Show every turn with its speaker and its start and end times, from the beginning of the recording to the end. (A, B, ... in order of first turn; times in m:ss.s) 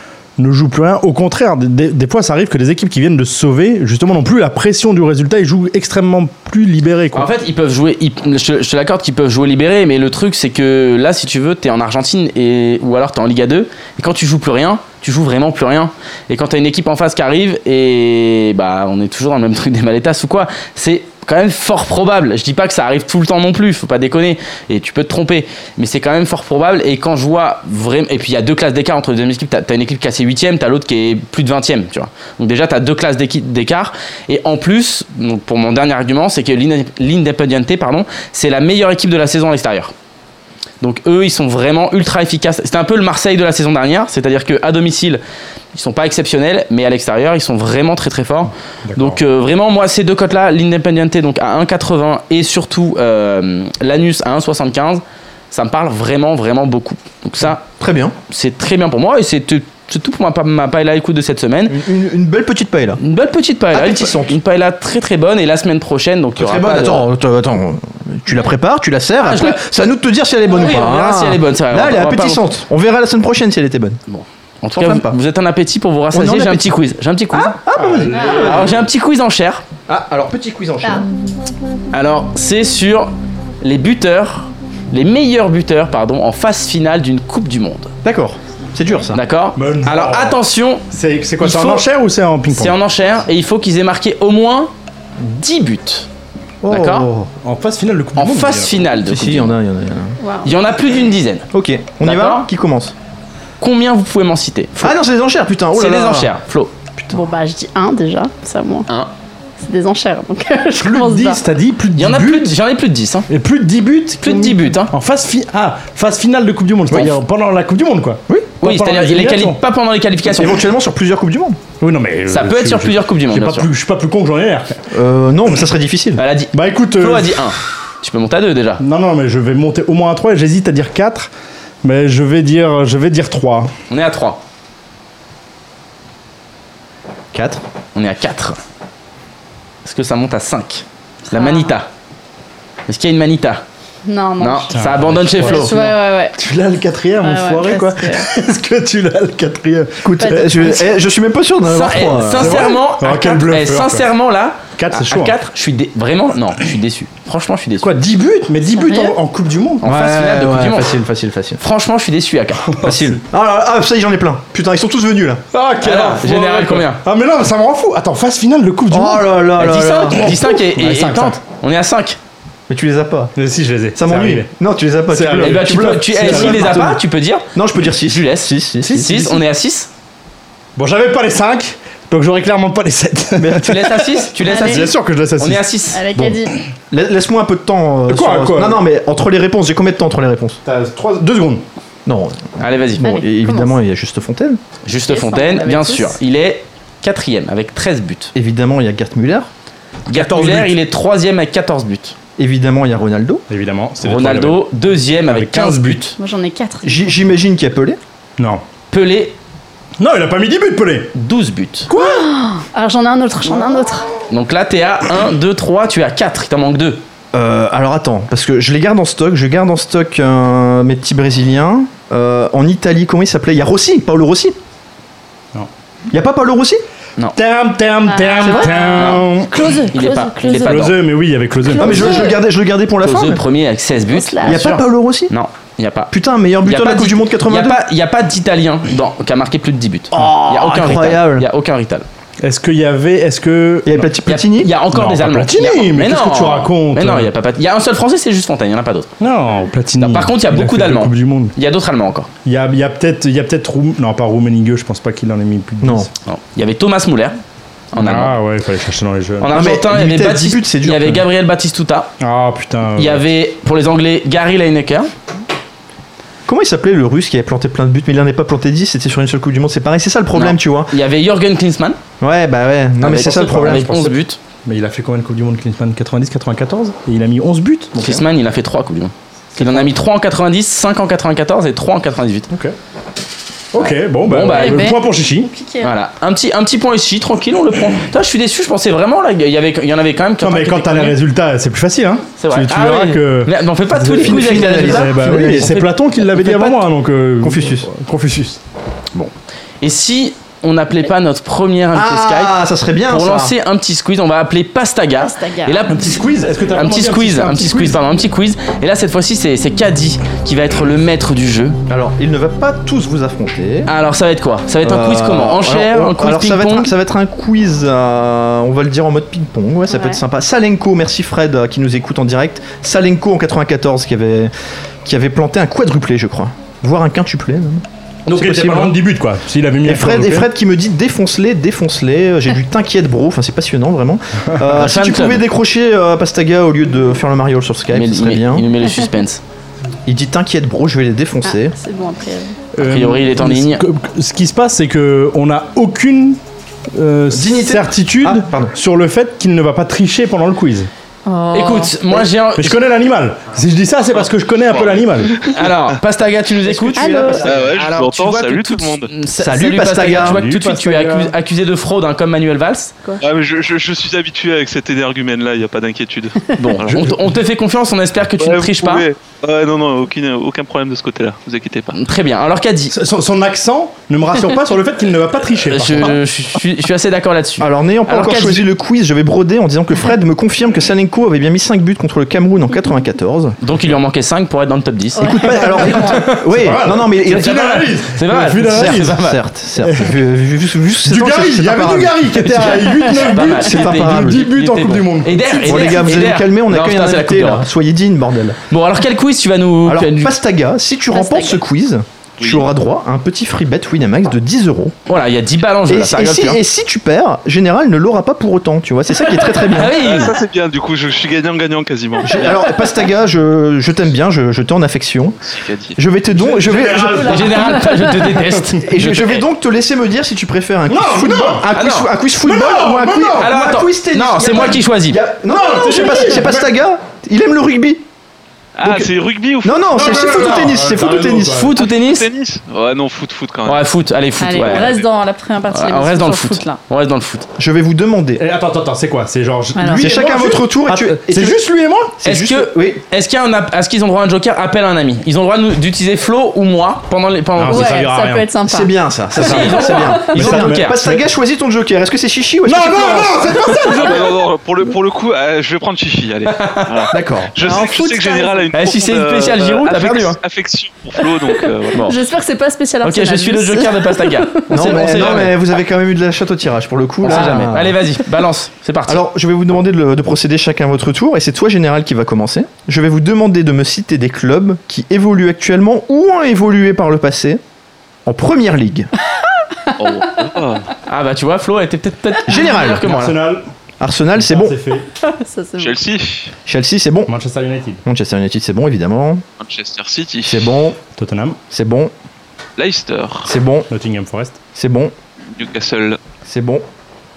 0:00.4-0:07.3 A
0:07.1-0:39.9 B
0:40.8-0:45.2 B
0:45.7-0:57.6 B
0:48.9-0:49.2 A
0:57.4-0:58.1 C
0:58.3-1:01.8 B
1:01.7-1:03.0 C
1:03.0-1:07.0 B
1:03.7-1:04.4 C
1:06.4-1:14.0 C
1:09.2-1:09.6 B
1:10.5-1:12.5 B
1:14.1-1:17.6 B
1:14.7-1:15.2 C
1:16.1-1:16.7 C
1:17.3-1:18.8 C
1:17.8-1:18.8 A
1:18.3-1:19.6 B
1:19.9-1:21.0 C
1:21.9-1:23.1 B
1:23.6-1:27.9 B
1:28.0-1:29.2 C
1:29.1-1:30.8 B
1:29.6-1:30.4 A
1:30.9-1:32.8 A
1:31.4-1:31.8 B
1:32.5-1:34.7 B
1:35.4-1:36.1 B
1:36.6-1:37.3 C
1:36.7-1:37.1 B
1:37.4-1:38.8 A
1:38.2-1:39.5 B
1:39.0-1:40.2 C
1:40.2-1:40.5 D
1:40.4-1:41.5 B
1:41.5-1:42.9 C
1:42.0-1:42.5 B
1:43.6-1:44.9 B
1:44.8-1:46.3 C
1:45.7-1:46.7 B
1:47.1-1:48.9 D
1:49.6-1:51.4 D
1:50.8-1:52.5 A
1:51.9-1:53.3 B
1:53.3-1:59.6 A
1:54.2-1:54.9 B
1:58.6-2:00.6 B
2:00.3-2:01.6 C
2:01.8-2:04.8 A
2:02.3-2:03.7 B
2:04.9-2:06.2 C
2:06.2-2:08.8 B
2:06.5-2:07.4 A
2:08.8-2:11.3 A
2:11.8-2:13.7 A
2:13.9-2:14.4 B
2:17.3-2:17.6 C
2:17.9-2:18.6 B
2:19.8-2:21.9 B
2:21.3-2:21.7 D
2:22.9-2:23.6 B
2:24.0-2:24.7 D
2:24.4-2:25.7 B
2:24.7-2:30.7 A
2:25.4-2:26.3 D
2:27.2-2:28.2 D
2:30.0-2:32.8 C
2:30.2-2:30.9 D
2:31.7-2:37.9 B
2:32.3-2:34.1 A
2:34.8-2:35.3 A
2:37.8-2:39.8 A
2:38.7-2:39.2 D
2:39.8-2:40.9 B
2:39.8-2:41.6 C
2:41.6-2:42.7 B
2:42.8-2:43.2 A
2:42.8-2:45.4 C
2:45.5-2:49.4 A
2:45.8-2:47.0 B
2:48.9-2:50.3 C
2:49.6-2:52.2 B
2:50.1-2:51.4 A
2:52.7-2:53.3 C
2:53.4-2:54.5 A
2:53.9-2:57.0 C
2:55.1-2:56.9 A
2:55.4-2:57.4 B
2:57.5-2:59.2 C
2:58.0-2:59.9 B
2:58.8-2:59.4 A
3:00.8-3:05.6 A
3:03.4-3:03.9 C
3:03.6-3:06.0 B
3:04.5-3:04.9 D
3:05.9-3:06.6 D
3:06.9-3:10.6 C
3:08.1-3:08.8 A
3:10.6-3:11.6 A
3:12.0-3:14.6 C
3:12.6-3:13.0 B
3:13.0-3:13.7 D
3:14.8-3:18.3 B
3:15.1-3:16.2 D
3:18.3-3:19.5 C
3:20.1-3:22.1 B
3:20.1-3:20.7 A
3:22.4-3:23.4 C
3:23.5-3:24.7 A
3:24.0-3:26.1 B
3:25.3-3:26.1 A
3:26.2-3:27.1 D
3:26.8-3:28.0 C
3:28.4-3:28.6 A
3:28.9-3:29.4 B
3:30.0-3:31.1 A
3:31.1-3:31.9 B
3:31.9-3:32.2 A
3:31.9-3:34.1 D
3:34.3-3:37.0 B
3:37.3-3:44.6 C
3:46.1-3:46.8 C
3:47.4-3:49.5 A
3:48.0-3:50.9 D
3:48.4-3:49.1 C
3:48.9-3:49.2 B
3:49.9-3:51.0 B
3:50.6-3:52.3 A
3:51.6-3:52.4 D
3:51.8-3:53.4 C
3:53.0-3:56.1 B
3:54.1-3:54.6 D
3:54.4-3:55.3 C
3:56.1-3:57.8 C
3:56.6-4:02.0 B
4:00.1-4:01.4 C
4:02.4-4:04.1 A
4:03.8-4:04.7 C
4:04.3-4:09.1 B
4:04.9-4:07.3 A
4:09.2-4:11.5 A
4:10.0-4:12.3 B
4:12.4-4:16.1 A
4:15.8-4:16.1 C
4:16.2-4:17.4 B
4:17.9-4:18.4 B
4:17.9-4:19.6 A
4:19.4-4:22.1 B
4:19.5-4:21.2 C
4:22.2-4:23.2 A
4:23.0-4:25.1 B
4:26.5-4:30.9 C
4:30.3-4:32.0 B
4:32.2-4:33.9 C
4:33.0-4:34.4 B
4:33.2-4:38.2 A
4:38.0-4:42.5 B
4:39.6-4:39.9 A
4:43.7-4:45.5 A
4:43.8-4:44.9 B
4:44.5-4:45.9 D
4:45.8-4:51.2 B
4:50.4-4:58.6 A
4:52.4-4:56.7 B
4:54.1-4:55.8 C
4:57.4-4:57.9 C
4:59.8-5:02.6 B
5:01.9-5:03.5 C
5:03.1-5:11.8 B
5:05.2-5:05.8 D
5:05.9-5:08.0 A
5:11.9-5:13.9 C
5:13.9-5:16.9 B
5:14.8-5:24.5 C
5:19.9-5:20.2 D
5:25.0-5:29.0 C
5:28.3-5:30.5 A
5:29.8-5:38.7 C
5:34.7-5:35.4 B
5:37.9-5:39.4 B
5:40.0-5:41.7 C
5:41.4-5:42.6 D
5:42.8-5:46.4 A
5:42.8-5:43.8 B
5:46.9-5:50.9 A
5:47.3-5:48.7 C
5:51.2-5:51.9 D
5:51.5-5:52.8 B
5:52.5-5:55.3 A
5:54.6-5:55.1 E
5:55.5-6:02.9 B
5:56.9-5:57.5 C
5:57.0-5:57.4 D
5:57.4-5:59.1 E
5:59.4-6:00.4 C
6:00.1-6:01.3 A
6:03.2-6:07.1 E
6:06.6-6:09.1 B
6:06.9-6:07.2 A
6:08.4-6:11.9 E
6:11.9-6:12.9 B
6:12.9-6:16.2 A
6:15.7-6:18.6 B
6:17.6-6:23.6 C
6:23.6-6:25.9 B
6:25.2-6:26.3 D
6:25.2-6:27.8 C
6:26.4-6:29.2 A
6:27.3-6:29.4 B
6:28.5-6:34.5 C
6:29.8-6:30.1 A
6:31.1-6:36.0 A
6:33.2-6:37.7 B
6:35.5-6:38.6 C
6:38.7-6:40.3 B
6:39.8-6:44.9 C
6:41.1-6:41.6 D
6:42.4-6:42.7 E
6:45.1-6:46.6 B
6:45.9-6:50.0 C
6:49.7-6:50.3 B
6:49.9-6:52.6 E
6:52.2-6:55.4 C
6:55.4-6:56.0 E
6:56.0-6:57.7 C
6:56.3-6:58.1 A
6:57.2-6:59.4 B
6:58.8-7:08.0 C
7:00.9-7:01.7 A
7:01.7-7:02.1 B
7:02.4-7:03.5 A
7:03.4-7:05.2 B
7:05.5-7:06.7 A
7:08.8-7:10.2 E
7:08.8-7:09.1 C
7:09.6-7:11.7 C
7:09.9-7:11.7 A
7:10.4-7:10.7 B
7:11.3-7:12.3 B
7:11.8-7:13.8 E
7:13.6-7:14.9 B
7:14.4-7:16.8 D
7:15.7-7:17.5 B
7:17.6-7:18.4 C
7:18.4-7:22.1 A
7:19.7-7:20.4 D
7:19.9-7:21.6 C
7:22.2-7:23.0 C
7:22.2-7:28.0 B
7:27.6-7:28.4 A
7:27.7-7:28.9 D
7:28.6-7:33.8 C
7:29.4-7:31.1 B
7:29.6-7:30.2 D
7:30.4-7:30.8 A
7:32.6-7:34.3 A
7:34.0-7:42.1 E
7:36.6-7:37.0 B
7:37.1-7:37.6 C
7:37.6-7:38.7 D
7:38.7-7:40.4 B
7:41.4-7:45.0 D
7:43.0-7:45.5 B
7:44.7-7:48.0 C
7:47.2-7:49.2 B
7:49.1-7:57.6 C
7:58.2-7:59.1 C
8:00.0-8:00.9 E
8:01.1-8:03.3 B
8:02.5-8:03.3 C
8:03.0-8:03.6 A
8:04.0-8:04.8 C
8:04.4-8:05.1 A
8:05.2-8:06.0 D
8:05.8-8:06.5 E
8:06.6-8:07.3 C
8:07.3-8:08.0 A
8:08.0-8:09.4 C
8:09.6-8:10.7 E
8:10.4-8:11.0 C
8:11.2-8:11.6 A
8:11.7-8:12.1 C
8:12.8-8:13.5 E
8:13.4-8:13.9 C
8:13.9-8:14.6 A
8:14.7-8:15.1 C
8:15.5-8:16.2 E
8:16.4-8:16.8 C